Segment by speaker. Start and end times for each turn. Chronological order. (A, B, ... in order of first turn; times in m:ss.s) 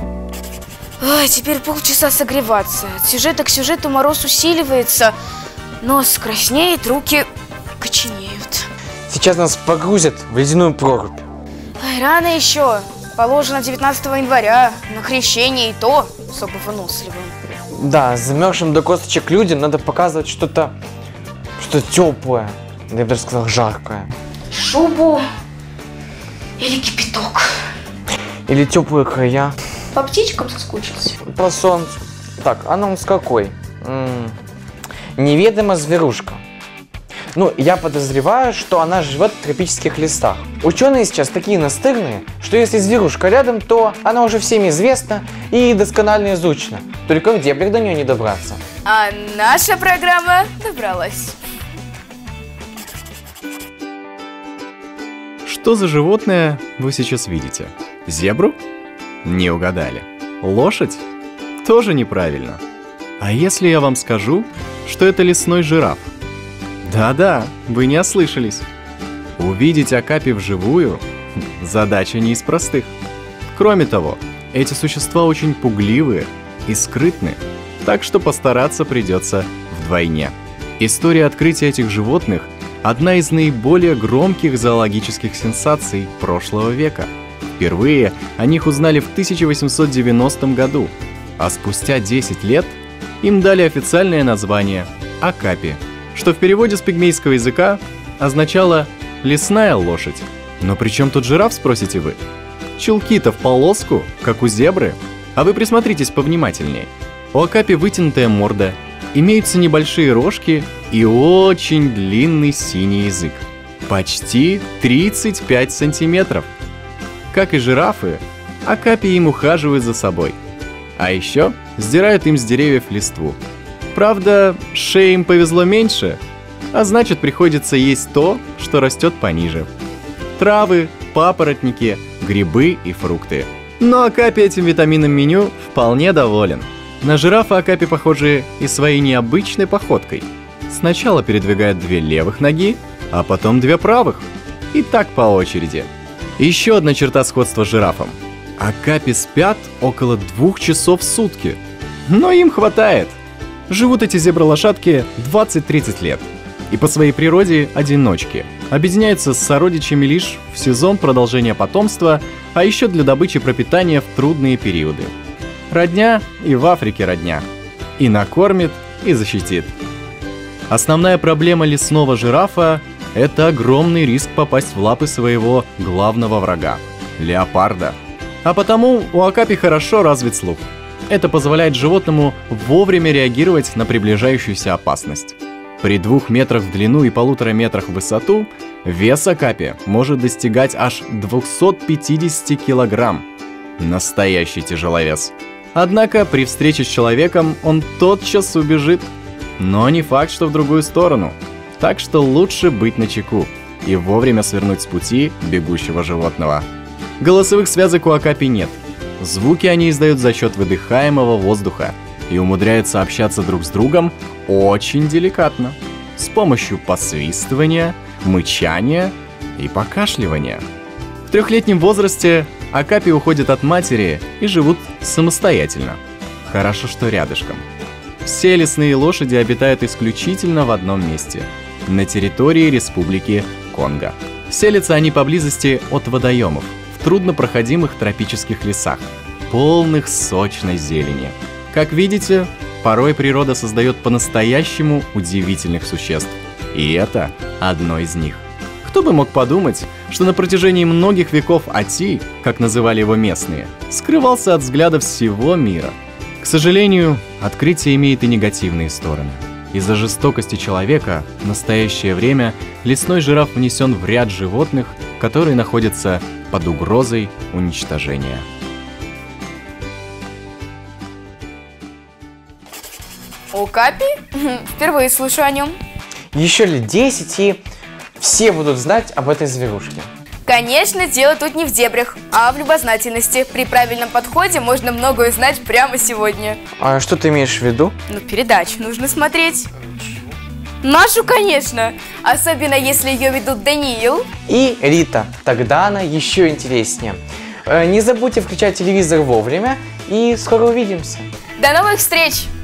0:01.0-0:05.2 A
0:05.8-0:08.7 A
0:09.1-0:11.3 B
0:11.8-0:17.3 A
0:17.7-0:20.8 B
0:21.6-0:24.1 B
0:24.5-0:25.3 A
0:26.6-0:27.6 A
0:28.5-0:29.6 B
0:29.9-0:31.2 A
0:31.3-0:34.4 B
0:35.2-0:36.4 B
0:37.3-0:48.6 B
0:48.8-0:51.4 A
0:55.4-0:58.6 C
0:59.2-1:01.0 C
1:01.6-1:02.6 C
1:03.2-1:06.1 C
1:06.8-1:08.7 C
1:09.4-1:13.0 C
1:13.5-1:42.2 C
1:42.8-1:56.5 C
1:57.3-2:00.4 C
2:01.0-2:03.4 C
2:03.9-2:06.2 C
2:06.7-2:09.7 C
2:10.4-2:33.2 C
2:33.7-2:45.1 C
2:45.7-2:47.5 C
2:48.0-2:49.7 C
2:50.7-3:13.3 C
3:13.8-3:26.7 C
3:27.2-3:40.6 C
3:41.3-3:47.7 C
3:48.2-4:28.4 C
4:33.5-4:35.8 A
4:36.3-4:37.6 B
4:38.2-4:40.1 B
4:40.5-4:46.6 A
4:46.8-4:48.0 B
4:48.1-4:49.7 A
4:50.8-4:54.3 A
4:54.5-5:01.3 B
5:01.6-5:02.5 A